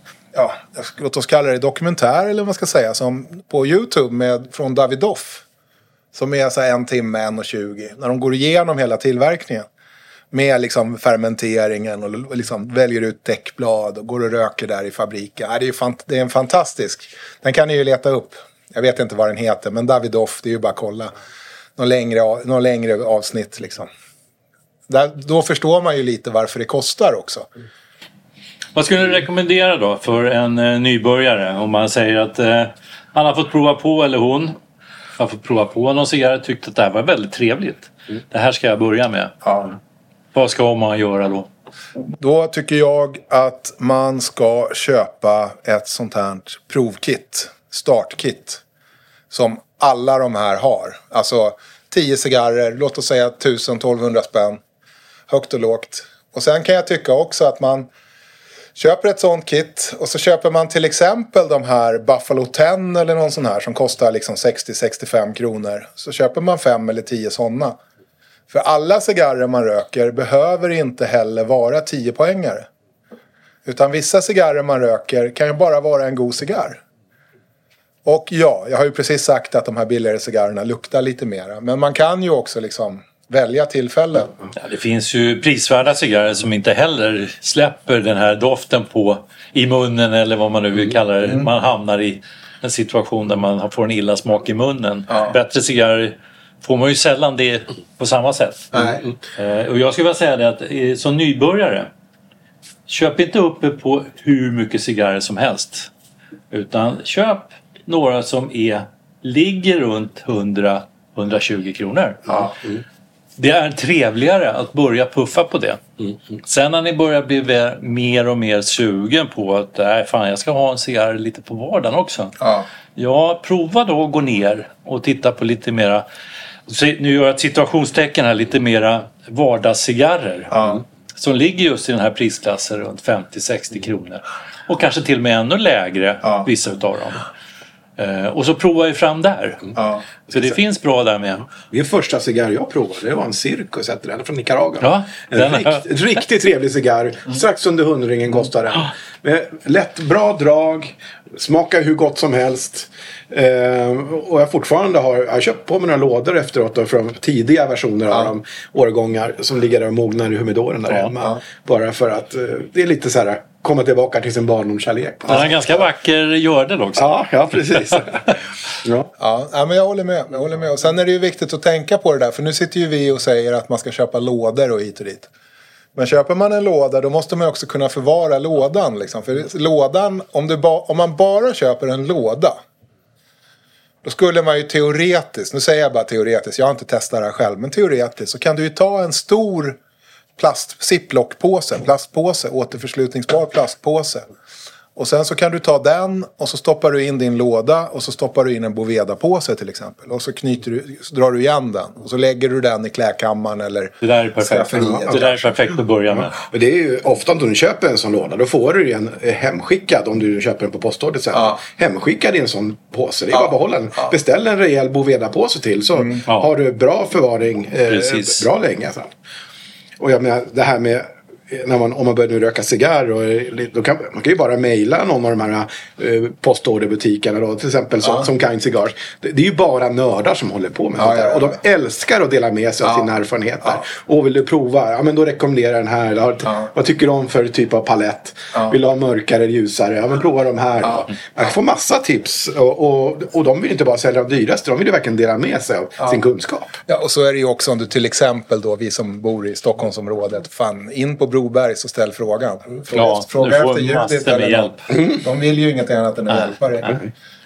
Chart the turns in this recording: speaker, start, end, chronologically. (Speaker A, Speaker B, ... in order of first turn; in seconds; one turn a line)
Speaker A: 0.3-5.4
Speaker A: 6.1-9.7
Speaker A: 10.3-21.1
Speaker A: 21.8-23.9
Speaker A: 24.9-27.5
Speaker B: 28.8-34.6
Speaker B: 35.2-39.4
Speaker B: 40.3-41.5
Speaker A: 42.2-48.6
Speaker A: 49.3-54.6
Speaker A: 55.3-57.9
Speaker A: 58.8-67.8
Speaker A: 68.5-72.7
Speaker A: 73.7-76.8
Speaker A: 78.0-84.3
Speaker B: 84.6-101.9
Speaker A: 98.7-99.0
Speaker B: 102.9-105.9
Speaker B: 106.5-112.5
Speaker B: 113.4-115.9
Speaker B: 116.4-126.0
Speaker A: 122.4-122.7
Speaker B: 126.7-130.6
Speaker A: 130.5-130.8
Speaker B: 131.2-137.3
Speaker B: 138.0-141.5
Speaker A: 139.8-140.0
Speaker C: 141.7-165.7
Speaker B: 144.8-145.9
Speaker B: 165.3-167.2
Speaker C: 167.0-168.3
Speaker C: 168.8-169.1
Speaker A: 169.2-175.3
Speaker A: 175.9-182.6
Speaker A: 184.0-189.8
Speaker A: 190.4-194.2
Speaker A: 195.0-205.4
Speaker B: 204.0-206.4
Speaker C: 206.3-219.1
Speaker B: 217.9-218.4
Speaker C: 220.0-246.8
Speaker A: 231.0-231.6
Speaker A: 246.9-257.0
Speaker B: 252.9-254.9